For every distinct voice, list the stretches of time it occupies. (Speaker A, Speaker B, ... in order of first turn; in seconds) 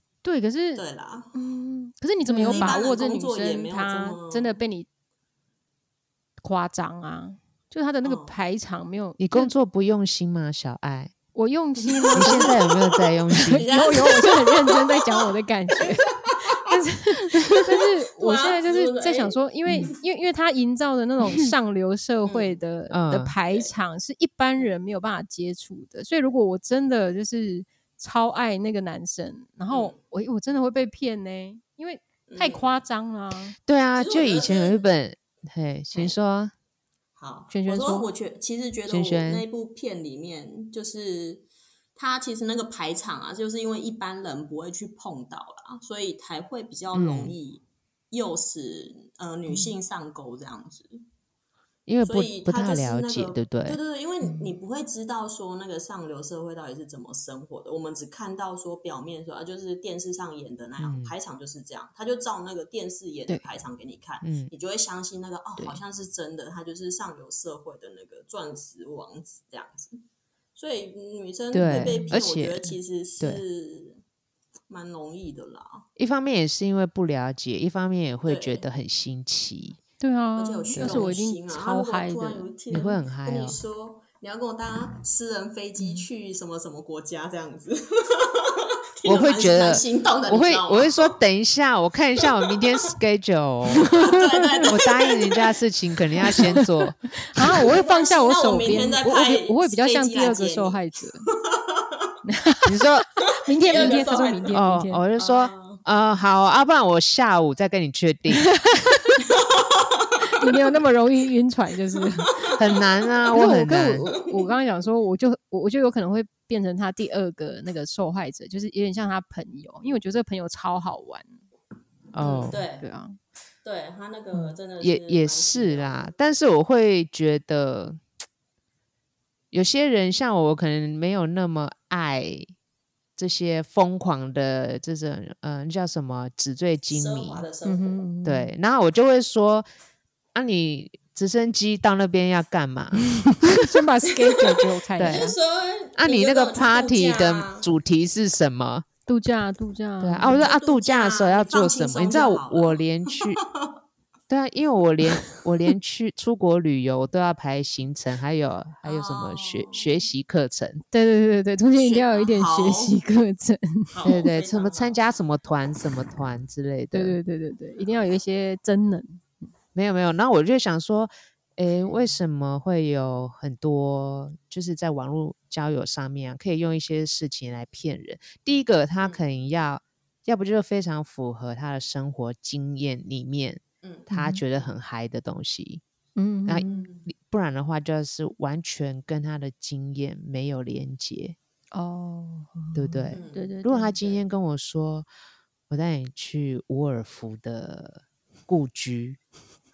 Speaker A: 0.2-4.9, 6.4-9.5, 11.3-12.6, 13.4-33.5, 37.5-38.1, 49.5-49.7, 54.2-54.5, 71.8-72.2, 80.0-82.5, 94.0-94.5, 96.2-101.3, 102.2-105.0, 108.3-109.2, 110.2-112.5, 113.3-121.4, 122.8-123.2, 137.7-138.5, 143.2-145.3, 149.1-150.4, 160.9-164.3, 166.9-169.5, 184.1-184.4, 186.2-186.9, 191.7-193.9
Speaker B: 0.8-1.3, 2.4-4.6, 8.0-8.3, 11.8-16.5, 17.3-19.9, 22.2-22.6, 29.7-30.0, 32.3-32.8, 34.0-34.8, 37.2-51.0, 52.0-70.0, 70.6-74.0, 74.7-75.9, 78.2-78.7, 80.4-91.2, 92.2-92.6, 93.7-95.6, 96.2-96.5, 97.4-102.1, 103.5-104.6, 105.2-105.8, 109.2-110.5, 112.5-113.3, 122.2-122.9, 123.6-126.1, 136.9-138.0, 145.0-147.7, 150.4-153.7, 158.8-159.9, 161.7-163.0, 163.9-165.1, 183.8-184.1, 186.6-187.1, 193.1-194.2
Speaker C: 2.3-2.8, 9.2-11.1, 12.2-13.7, 22.9-23.3, 33.7-36.5, 38.9-39.4, 46.9-47.4, 51.9-53.8, 60.8-61.1, 64.2-64.5, 71.5-72.6, 76.0-79.8, 80.8-81.1, 82.7-83.6, 89.0-94.0, 94.7-97.0, 102.7-103.1, 104.5-108.5, 112.6-114.1, 122.1-122.6, 124.8-128.0, 129.5-132.5, 133.2-137.5, 138.2-139.7, 140.3-143.7, 145.0-145.3, 146.0-148.9, 150.0-153.4, 154.3-160.8, 164.1-167.2, 169.8-185.8, 186.5-191.4, 192.7-195.1, 195.7-199.2